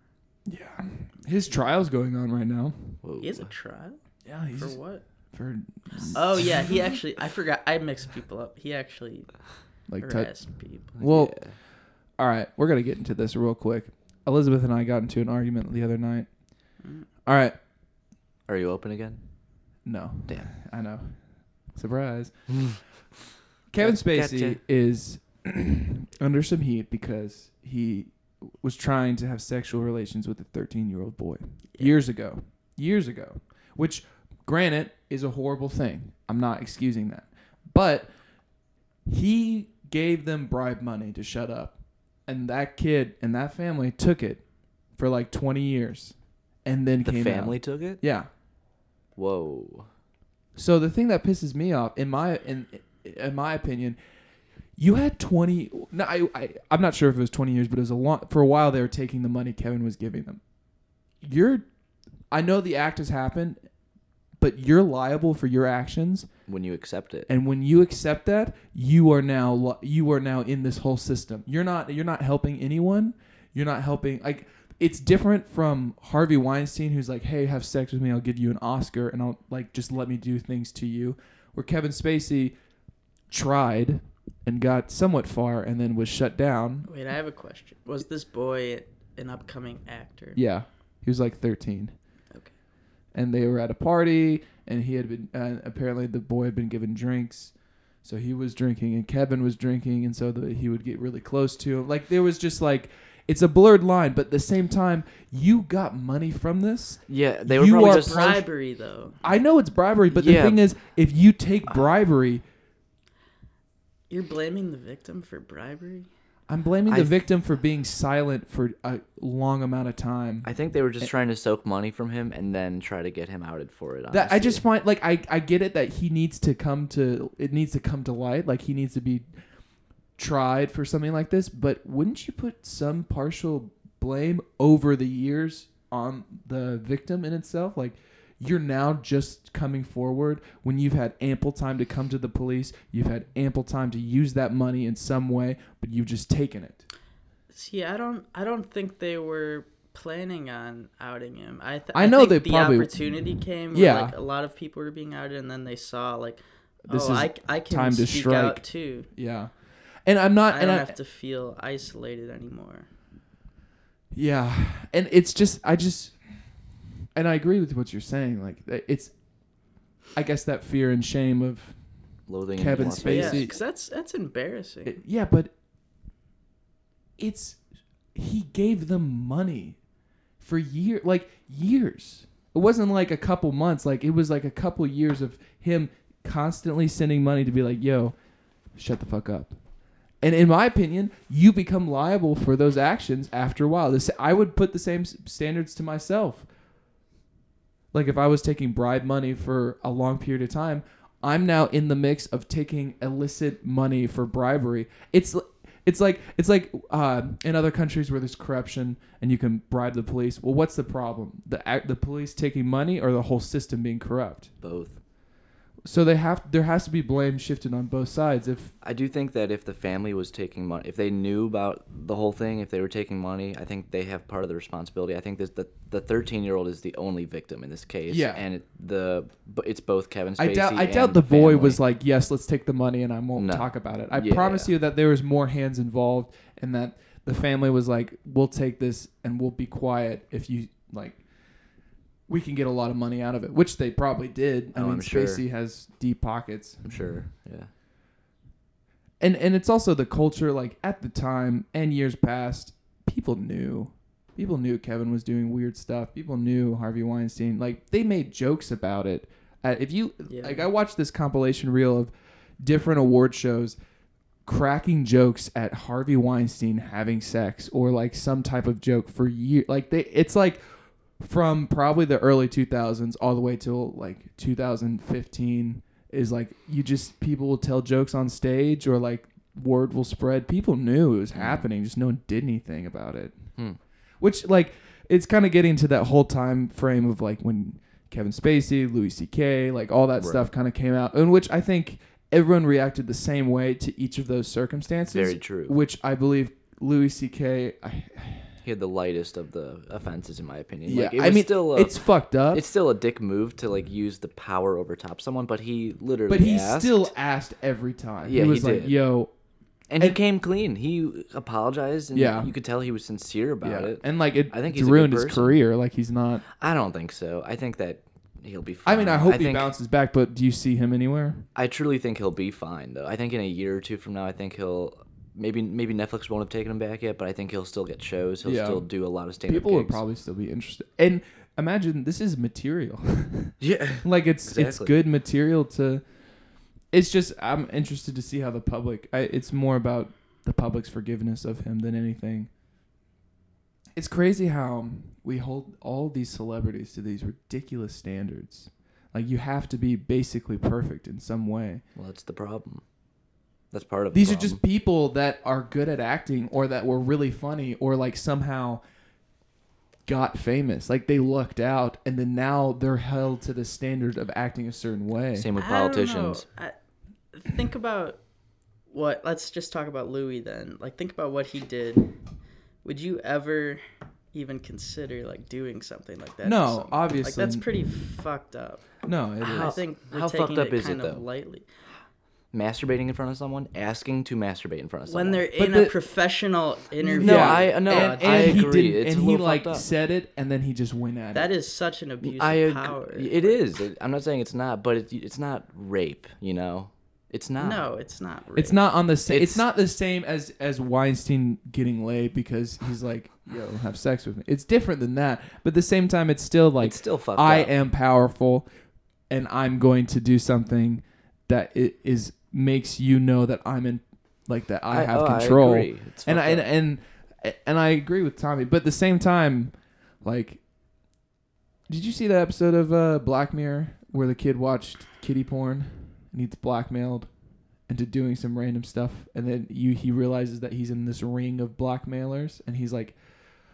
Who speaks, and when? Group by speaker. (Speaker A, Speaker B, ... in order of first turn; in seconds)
Speaker A: 0.5-3.0, 4.2-4.8, 5.3-7.0, 9.9-11.4, 12.2-16.3, 17.2-17.6, 19.8-21.2, 21.7-22.6, 23.7-38.1, 39.0-44.4, 44.9-48.3, 50.5-54.0, 54.8-60.4, 61.2-61.6, 62.3-63.6, 64.4-66.3, 67.3-82.5, 83.3-86.9, 90.3-91.9, 93.1-108.4, 109.2-112.4, 116.5-121.1, 124.1-129.3, 130.2-146.8, 151.9-153.1, 153.7-154.1, 156.9-159.5, 160.0-160.9, 164.1-166.2, 167.1-169.1, 170.1-171.8, 172.5-173.6, 174.8-175.5, 177.2-177.6, 178.1-179.8, 180.4-188.2, 188.7-189.6, 190.2-196.5, 197.9-214.5, 215.8-218.7, 228.1-228.4, 230.4-241.2, 242.3-247.2, 249.2-263.8, 264.4-283.5, 284.2-298.5, 300.9-302.6, 306.3-309.3, 312.1-312.5, 313.6-316.4, 318.8-321.4, 328.4-328.9, 329.4-336.0, 336.9-342.5, 343.9-351.8, 354.1-358.8, 360.1-365.5, 376.4-377.7, 379.0-379.8, 385.6-385.9, 387.1-391.5, 398.5-408.7, 409.3-420.6, 421.9-427.3, 427.9-433.2
Speaker B: 3.0-3.5, 11.0-11.5, 18.5-19.2, 22.5-22.8, 23.8-24.6, 47.0-48.0, 49.1-49.9, 66.5-67.3, 107.1-108.4, 110.1-110.6, 116.9-117.2, 120.4-124.6, 172.3-173.5, 214.6-215.0, 218.8-231.8, 233.4-234.7, 244.7-245.4, 246.8-247.7, 281.3-281.6, 290.2-290.5, 295.1-295.8, 298.6-307.1, 308.2-309.0, 309.9-315.6, 316.6-319.7, 321.5-330.0, 333.6-334.9, 351.9-352.8, 353.7-354.6, 365.3-366.4, 379.4-381.2, 382.5-385.5, 387.1-389.9, 392.2-397.9, 399.3-399.6, 406.8-407.7, 414.9-416.7
Speaker C: 3.2-4.0, 4.5-5.0, 6.0-9.4, 10.0-10.9, 16.8-17.1, 86.8-90.4, 107.7-109.2, 114.1-116.1, 147.5-159.1, 160.5-162.9, 173.0-175.0, 260.2-260.7, 365.6-366.8, 367.3-368.2, 368.9-372.1, 372.8-373.8, 374.3-381.6, 385.1-388.6, 391.3-393.6, 397.6-398.8